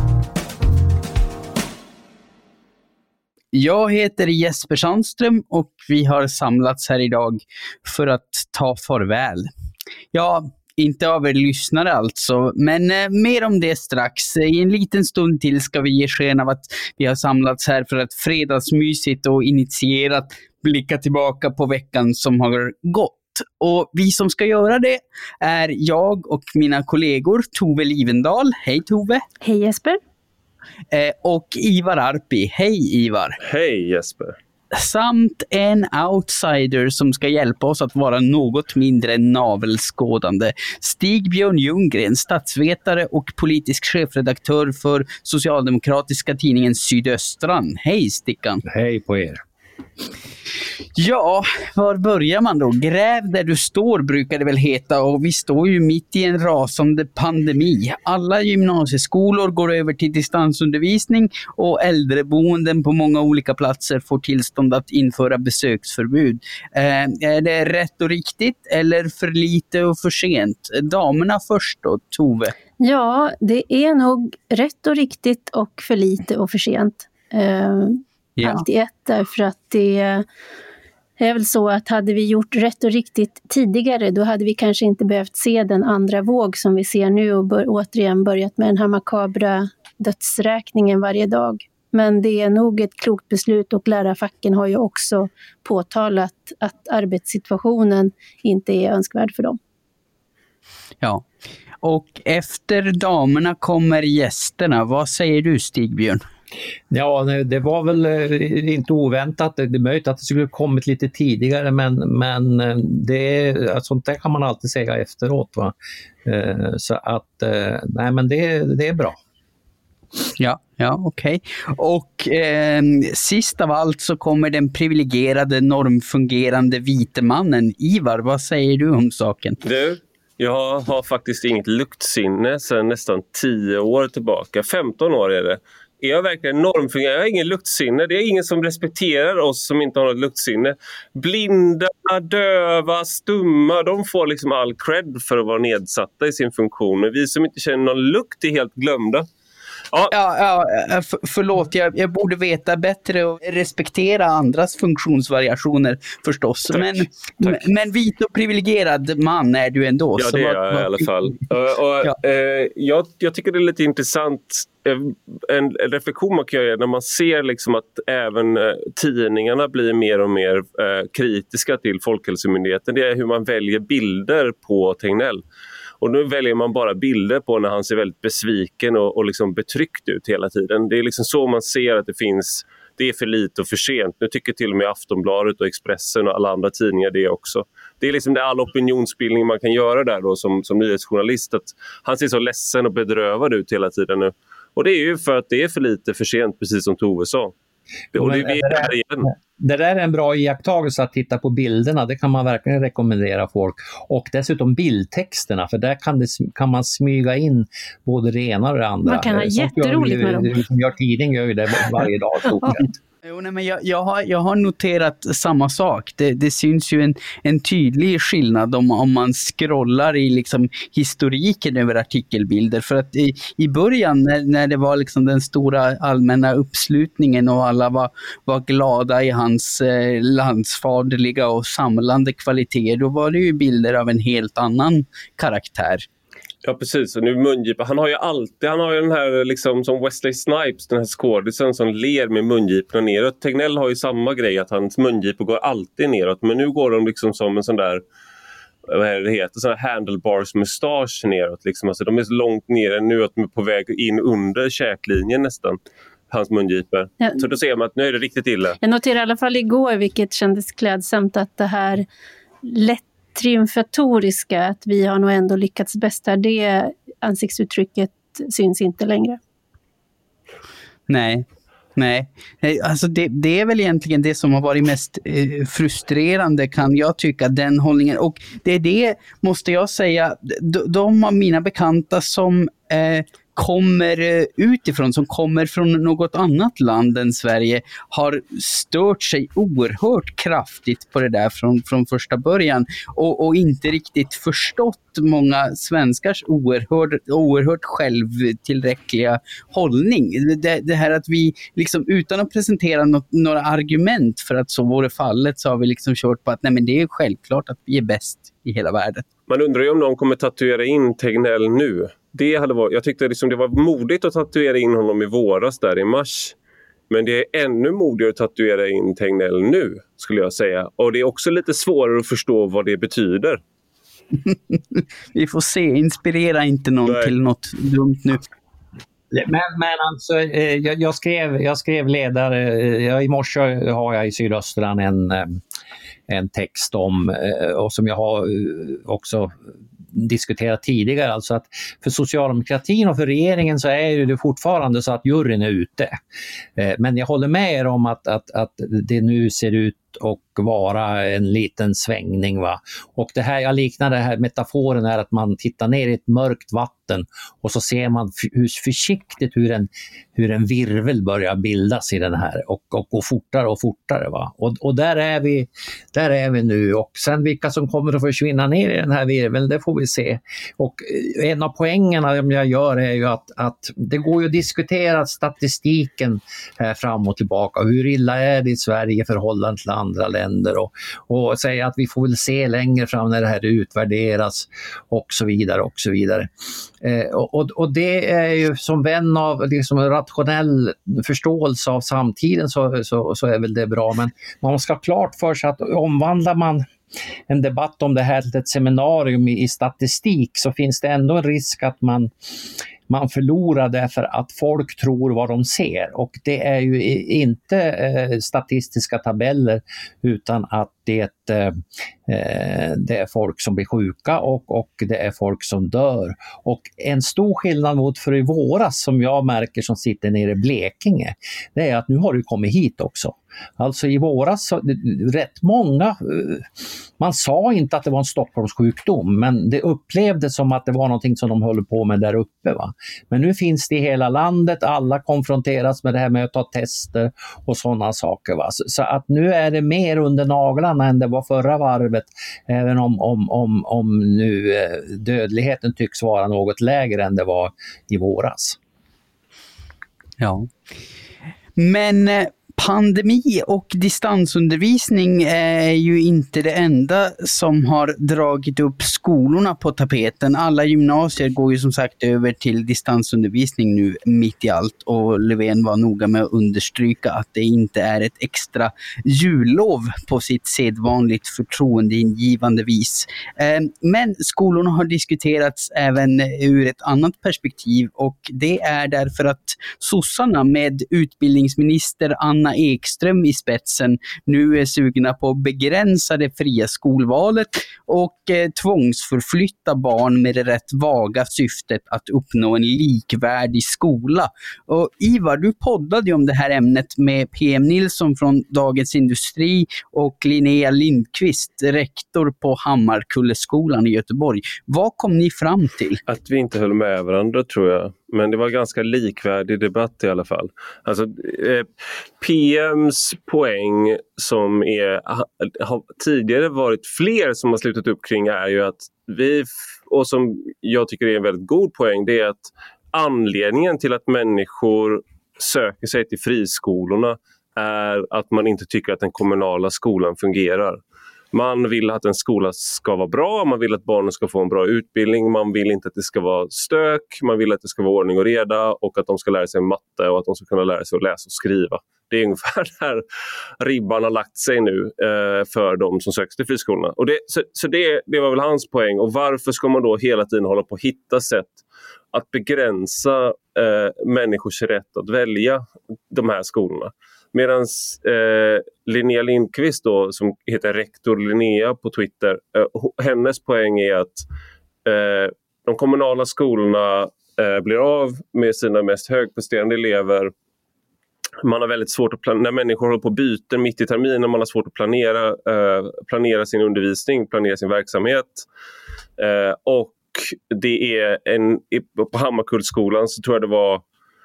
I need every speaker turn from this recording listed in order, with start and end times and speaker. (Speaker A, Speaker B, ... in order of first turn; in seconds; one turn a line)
Speaker A: 3.5-9.5
Speaker A: 10.1-29.2
Speaker B: 29.4-30.0
Speaker A: 30.9-33.4
Speaker C: 33.4-34.4
Speaker A: 34.7-48.6
Speaker D: 48.6-49.4
Speaker A: 51.0-72.5
Speaker B: 72.8-80.2
Speaker A: 78.4-78.6
Speaker B: 81.2-99.6
Speaker A: 101.8-106.2
Speaker D: 106.9-115.7
Speaker D: 116.2-119.2
Speaker A: 120.4-129.6
Speaker C: 129.6-149.3
Speaker A: 150.1-161.1
Speaker C: 156.7-157.7
Speaker C: 160.2-175.4
Speaker C: 176.0-197.5
Speaker C: 198.1-199.3
Speaker D: 198.1-212.9
Speaker B: 209.0-210.5
Speaker A: 213.2-236.1
Speaker C: 236.6-248.0
Speaker C: 248.9-255.8
Speaker C: 256.3-258.8
Speaker B: 258.8-262.1
Speaker B: 262.6-269.4
Speaker A: 271.1-309.2
Speaker C: 309.5-316.6
Speaker C: 317.1-323.6
Speaker A: 324.4-328.4
Speaker C: 327.1-327.3
Speaker D: 329.3-335.6
Speaker D: 336.3-339.5
Speaker D: 340.1-346.1
Speaker D: 346.8-386.5
Speaker D: 387.0-396.9
Speaker D: 397.5-402.3
Speaker D: 403.1-448.8
Speaker A: 450.4-450.7
Speaker A: 451.8-506.2
Speaker C: 506.3-511.9
Speaker C: 512.4-531.0
Speaker C: 531.5-543.2
Speaker C: 543.8-551.8
Speaker C: 552.3-564.4
Speaker C: 565.0-570.5
Speaker C: 571.6-578.6
Speaker C: 579.4-584.0